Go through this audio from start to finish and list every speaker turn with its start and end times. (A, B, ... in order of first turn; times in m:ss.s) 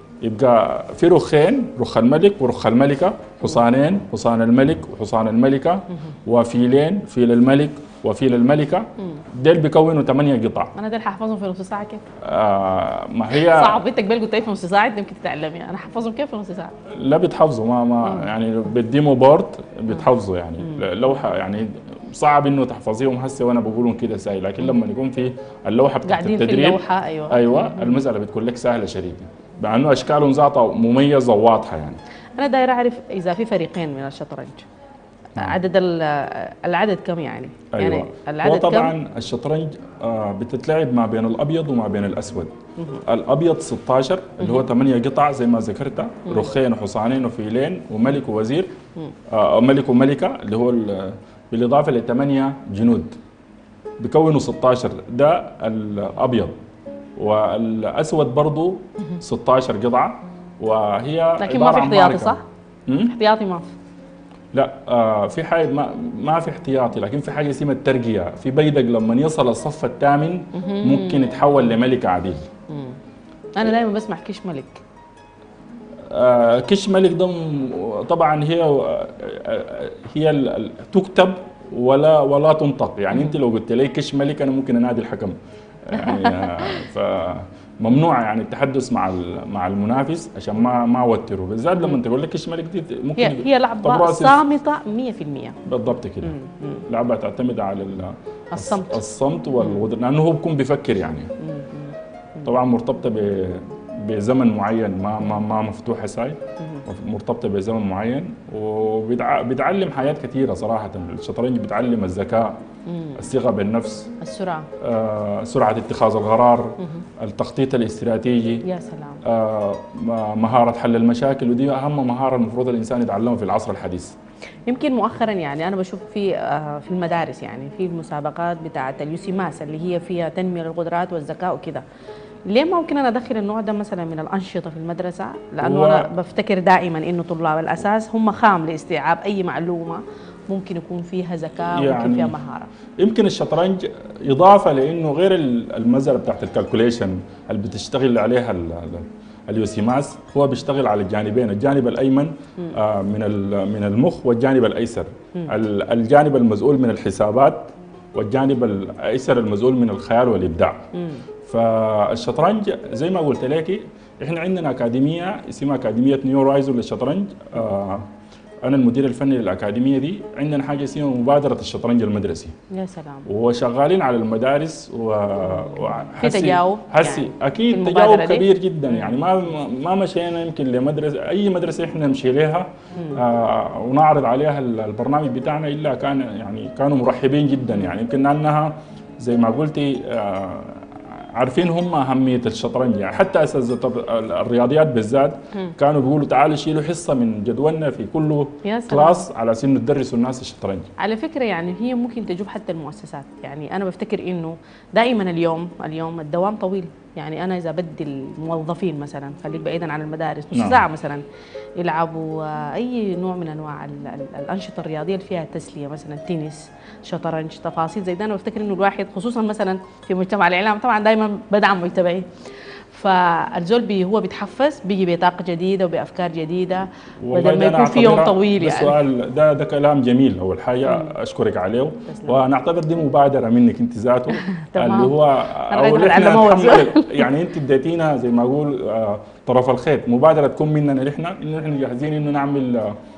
0:00.2-0:10.7 A
0:10.8-0:12.0 B
0:12.2-0:13.8 A
0:13.3-0:16.8 B
0:16.9-0:32.0 A
0:18.0-0:18.3 B
0:26.0-0:28.0 B
0:32.4-0:34.6 B
0:35.4-0:38.9 B
0:37.7-0:42.5 A
0:43.1-0:48.7 A
0:49.3-0:53.2 A
0:54.0-0:56.6 A
0:57.2-1:03.1 A
1:01.4-1:02.4 B
1:03.0-1:03.7 B
1:04.5-1:12.5 A
1:10.5-1:11.5 B
1:12.7-1:13.0 B
1:13.5-1:14.8 B
1:16.1-1:34.4 A
1:23.1-1:23.4 B
1:25.9-1:26.8 B
1:33.2-1:35.6 B
1:35.6-1:36.4 A
1:36.2-1:36.8 B
1:36.9-1:41.3 A
1:38.5-1:39.0 B
1:39.6-1:39.9 B
1:41.4-1:42.5 B
1:42.4-1:52.6 A
1:46.6-1:46.9 B
1:52.9-1:53.2 B
1:53.2-1:54.1 A
1:54.2-1:54.7 B
1:54.8-1:58.6 A
1:56.8-1:57.0 B
1:58.6-1:59.2 B
1:59.2-2:04.2 A
2:04.7-2:11.8 B
2:12.4-2:22.7 B
2:15.6-2:16.1 A
2:21.7-2:22.3 A
2:23.0-2:40.8 A
2:40.9-2:41.2 B
2:41.4-2:48.1 A
2:48.6-2:52.5 A
2:52.7-2:53.3 B
2:53.3-3:20.9 A
2:56.2-2:59.2 B
3:03.0-3:03.2 B
3:18.6-3:19.3 B
3:21.0-3:31.2 B
3:30.5-3:30.8 A
3:31.8-3:42.3 B
3:42.9-3:49.0 B
3:47.2-4:03.0 A
3:50.8-3:51.1 B
3:52.1-3:52.4 B
3:54.3-3:57.3 B